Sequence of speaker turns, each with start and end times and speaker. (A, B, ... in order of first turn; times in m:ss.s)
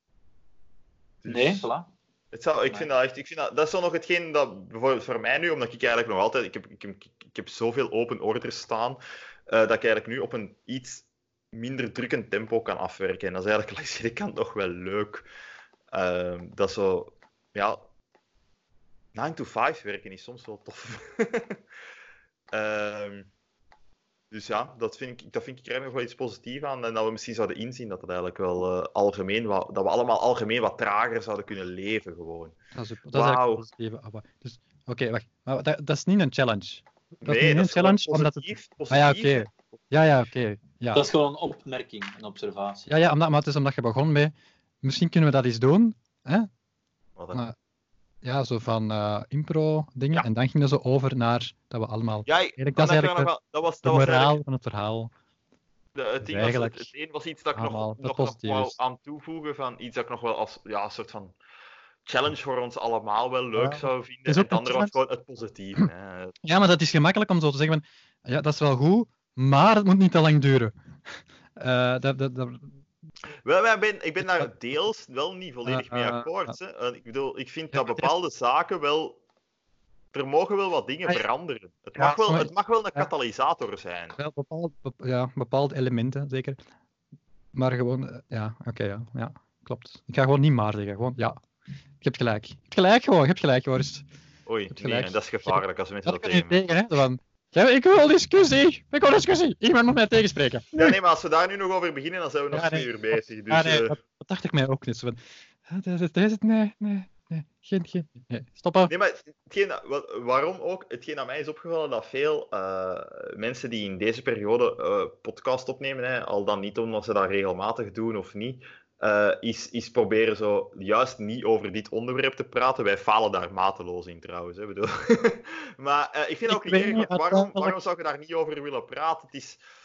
0:01.2-0:01.7 A
0:01.3-0:01.9 B
0:02.3-0:15.3 A
0:15.9-0:17.8 A
0:19.2-0:21.6 A
0:22.5-0:23.3 A
0:24.3-0:32.6 A
0:32.8-0:41.1 C
0:33.1-0:33.6 A
0:37.2-0:39.5 A
0:40.9-0:42.9 B
0:42.9-0:46.5 C
0:48.2-0:55.1 C
0:52.3-0:54.4 A
0:56.0-1:01.4 A
0:56.2-0:56.9 C
0:57.5-0:58.8 C
1:02.1-1:06.3 A
1:03.6-1:05.0 C
1:06.4-1:10.7 C
1:11.6-1:12.8 C
1:13.4-1:19.2 A
1:14.2-1:14.5 C
1:15.7-1:16.6 C
1:17.7-1:18.1 C
1:20.1-1:24.2 A
1:22.0-1:23.1 C
1:24.2-1:26.6 C
1:27.5-1:31.4 C
1:32.0-1:34.0 C
1:34.5-1:36.6 A
1:34.7-1:40.9 C
1:40.8-1:44.0 A
1:42.5-1:48.9 C
1:48.9-2:09.6 A
2:06.5-2:07.8 C